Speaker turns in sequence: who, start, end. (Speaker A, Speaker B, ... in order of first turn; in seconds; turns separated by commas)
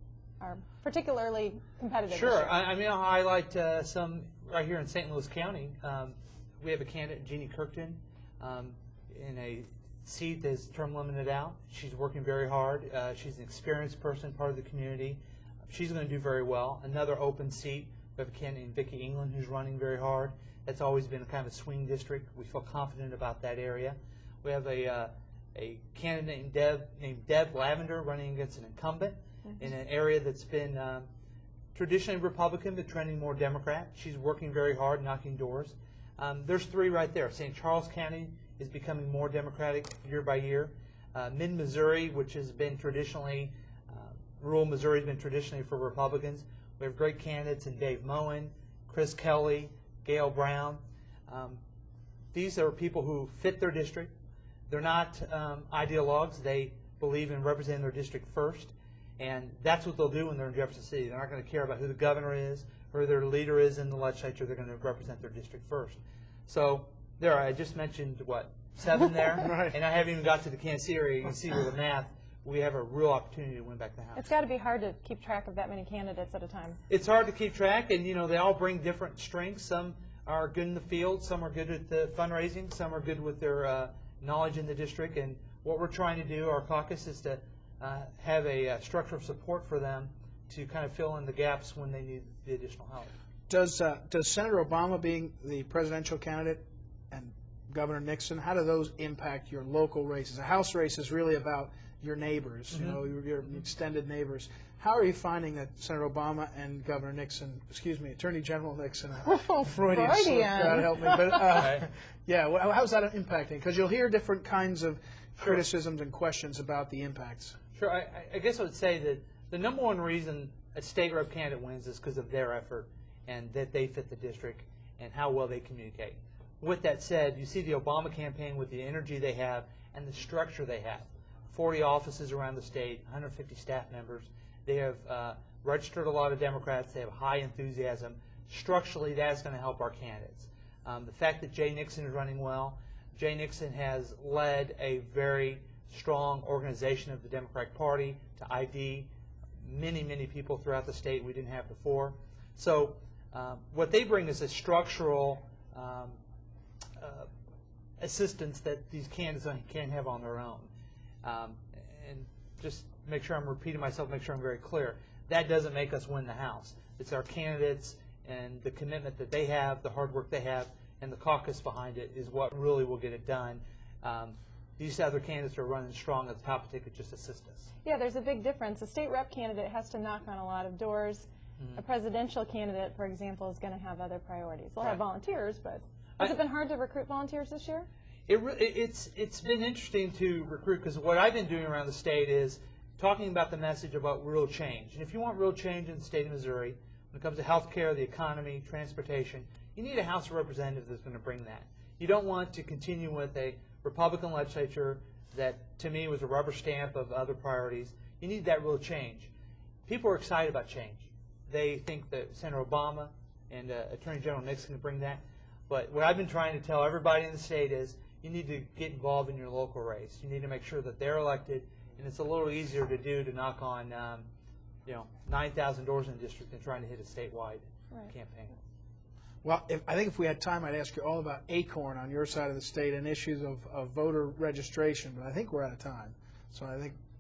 Speaker A: 0.4-2.5, Speaker B: 2.1-31.1, Speaker B: 31.8-51.6, Speaker B: 52.3-54.1, Speaker B: 54.7-74.3, Speaker C: 69.4-69.8, Speaker A: 74.2-76.8, Speaker B: 76.9-93.1, Speaker C: 93.5-117.6, Speaker B: 102.7-103.0, Speaker A: 109.3-111.4, Speaker B: 111.5-111.9, Speaker B: 117.8-156.2, Speaker B: 157.0-157.3, Speaker B: 158.0-160.7, Speaker B: 161.2-177.7, Speaker A: 177.8-187.9, Speaker B: 188.3-209.3, Speaker B: 209.9-224.3, Speaker B: 224.9-228.6, Speaker C: 229.4-237.0